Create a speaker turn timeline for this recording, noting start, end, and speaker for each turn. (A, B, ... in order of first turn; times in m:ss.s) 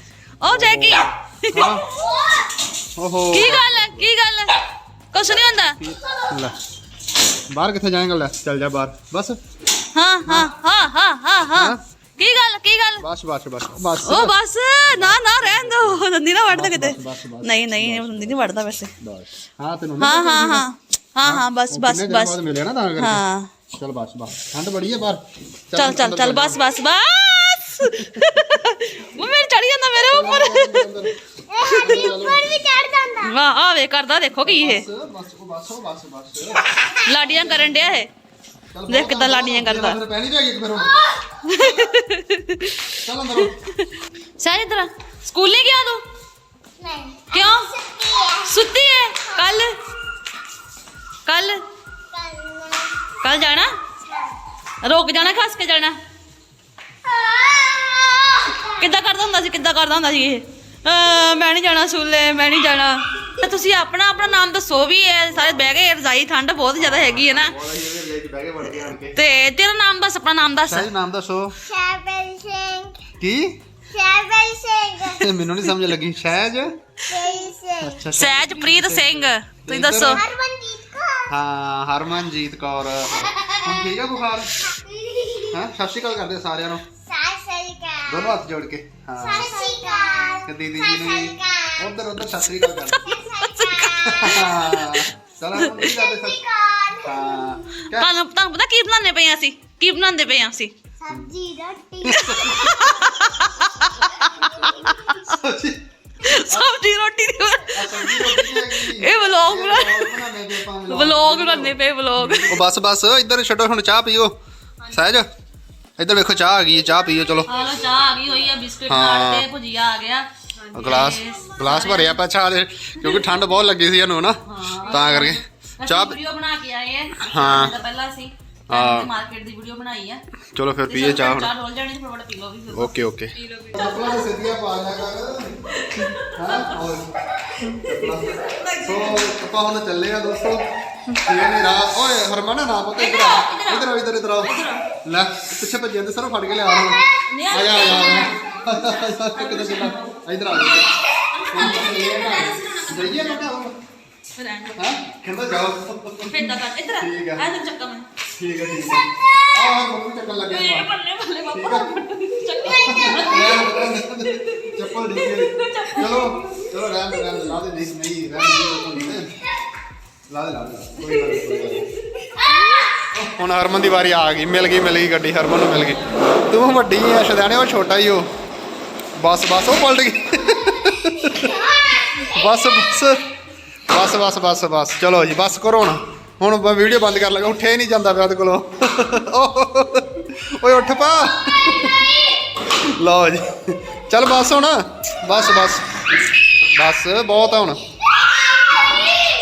0:00.4-0:01.7 A
0:00.4-0:01.9 B
0:03.0-0:04.1 B
0:03.3-0:04.6 A
0:05.1-0:05.8 A
0:05.8-0:06.6 B
0:07.5-0:09.4 B
0:09.9-0:13.0 A
0:11.5-0:11.8 B
0:13.0-0:14.4 B
0:14.0-0:18.9 A
0:14.9-0:18.4 B
0:19.0-0:20.7 B
0:20.0-0:22.4 A
0:21.2-0:26.6 B
0:23.0-0:23.5 A
0:25.7-0:30.9 A
0:30.0-0:31.1 B
0:31.5-0:33.3 C
0:31.7-0:32.5 B
0:33.2-0:34.9 A
0:34.4-0:38.0 B
0:37.0-0:38.1 A
0:38.7-0:41.0 B
0:38.9-0:40.0 A
0:41.4-0:43.9 A
0:43.0-0:43.6 B
0:44.4-0:46.0 A
0:46.8-0:48.5 C
0:47.3-0:47.8 A
0:48.4-0:49.7 A
0:51.2-0:51.6 A
0:52.1-0:53.1 C
0:53.2-0:53.7 A
0:54.0-0:54.3 C
0:54.8-0:56.0 A
0:57.2-0:58.6 C
0:58.6-1:07.6 A
1:06.8-1:09.2 B
1:09.1-1:10.9 A
1:10.7-1:11.6 B
1:11.6-1:13.0 C
1:13.1-1:13.6 B
1:13.9-1:15.2 C
1:15.2-1:16.7 B
1:17.1-1:18.0 C
1:17.8-1:20.2 B
1:18.1-1:20.2 A
1:20.1-1:21.3 C
1:21.3-1:24.5 B
1:23.3-1:24.0 C
1:24.6-1:25.6 C
1:25.5-1:26.8 B
1:27.0-1:28.4 C
1:28.1-1:29.7 B
1:29.2-1:31.9 C
1:30.4-1:33.2 B
1:32.8-1:35.8 A
1:33.0-1:34.6 C
1:34.1-1:36.4 B
1:35.8-1:37.6 C
1:37.0-1:38.1 B
1:37.9-1:40.7 A
1:41.0-1:42.7 C
1:42.0-1:42.8 B
1:42.1-1:45.3 A
1:44.0-1:45.2 C
1:45.3-1:45.8 B
1:46.2-1:50.2 A
1:46.4-1:46.8 B
1:47.7-1:54.4 B
1:50.9-1:52.6 A
1:54.9-1:55.3 B
1:56.0-1:57.5 B
1:57.5-2:02.2 A
1:58.9-1:59.5 B
2:00.7-2:06.2 B
2:03.0-2:03.4 A
2:04.5-2:10.2 A
2:07.2-2:07.8 B
2:08.7-2:09.1 B
2:10.5-2:11.5 B
2:10.9-2:14.3 A
2:12.7-2:15.5 B
2:15.8-2:16.8 A
2:16.4-2:17.1 B
2:17.6-2:19.4 A
2:17.7-2:18.3 B
2:18.9-2:24.5 B
2:23.0-2:24.8 A
2:25.0-2:30.9 B
2:27.3-2:33.5 A
2:31.5-2:33.7 B
2:34.4-2:34.9 A
2:34.8-2:37.4 B
2:36.2-2:38.0 A
2:38.4-2:40.9 B
2:40.5-2:47.6 A
2:41.5-2:41.9 B
2:42.6-2:49.4 B
2:48.4-2:49.1 A
2:50.3-2:51.9 B
2:51.0-2:52.9 A
2:53.1-2:58.3 B
2:59.2-3:03.2 B
3:01.6-3:02.3 C
3:03.9-3:12.2 B
3:13.0-3:15.9 B
3:16.7-3:17.8 B